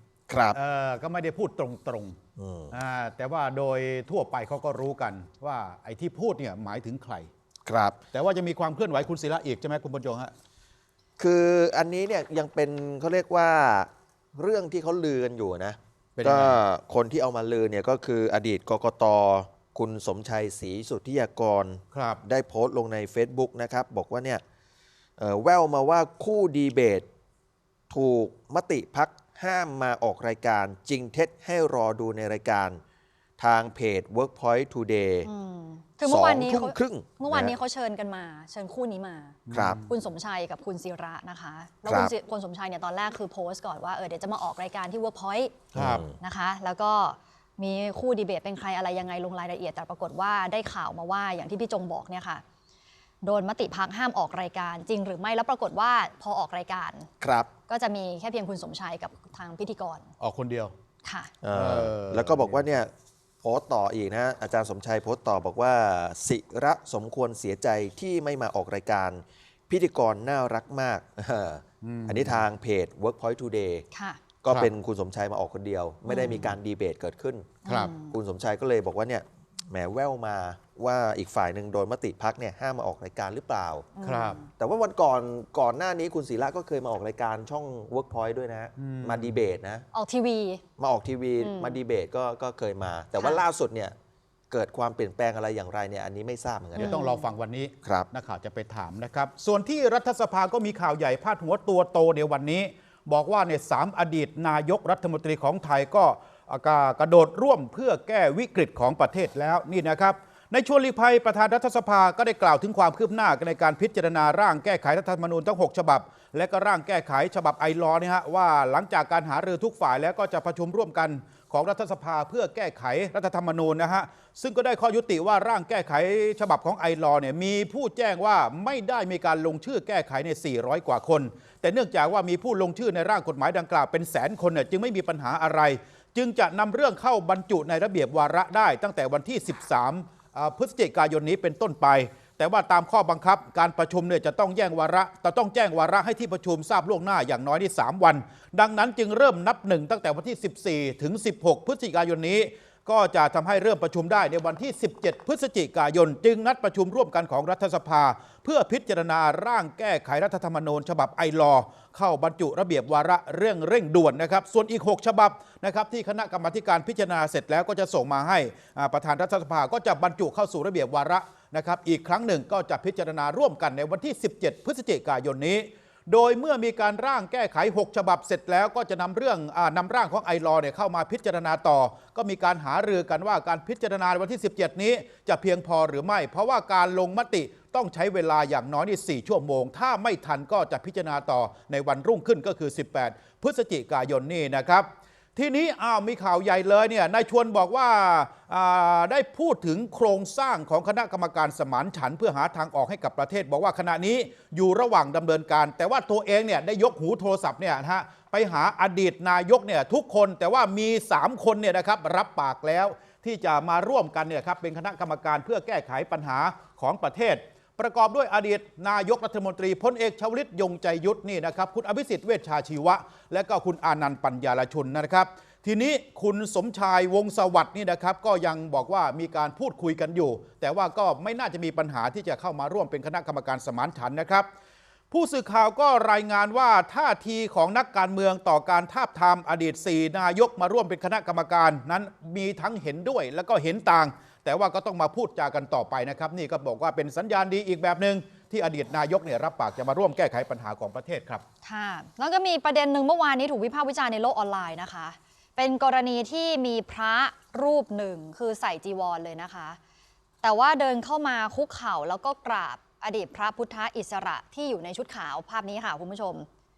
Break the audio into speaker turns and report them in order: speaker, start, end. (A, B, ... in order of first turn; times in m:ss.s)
0:00.3-0:00.6 A
0:00.5-0:02.2 B
0:02.4-0:02.8 A
0:02.7-0:07.3 B
0:07.6-0:08.0 A
0:08.1-0:10.3 B
0:11.2-0:24.4 A
0:16.2-0:16.6 B
0:21.9-0:22.2 B
0:25.2-0:27.1 A
0:27.9-0:32.8 A
0:33.4-0:35.3 A
0:35.2-0:45.6 C
0:36.0-0:37.5 A
0:39.5-0:39.9 B
0:39.5-0:39.8 A
0:41.8-0:42.1 A
0:45.7-0:46.0 B
0:45.7-0:46.1 A
0:46.2-0:52.4 C
0:53.2-0:57.1 C
0:57.2-0:57.5 A
0:57.7-1:00.1 C
1:00.2-1:00.7 B
1:01.0-1:01.3 C
1:01.4-1:02.9 A
1:01.5-1:02.6 B
1:03.4-1:13.9 A
1:11.8-1:12.4 B
1:13.9-1:14.2 C
1:14.4-1:17.5 A
1:16.1-1:16.6 C
1:17.6-1:18.1 C
1:17.6-1:17.9 B
1:18.1-1:23.9 A
1:23.9-1:24.5 C
1:24.0-1:24.4 B
1:24.6-1:29.8 A
1:28.8-1:29.4 B
1:29.9-1:30.6 C
1:30.8-1:33.9 A
1:31.4-1:31.8 C
1:34.5-1:36.9 A
1:36.8-3:54.4 B
1:36.8-1:37.3 C
3:55.1-4:11.4 B
4:11.6-4:19.8 C
4:20.4-4:26.5 C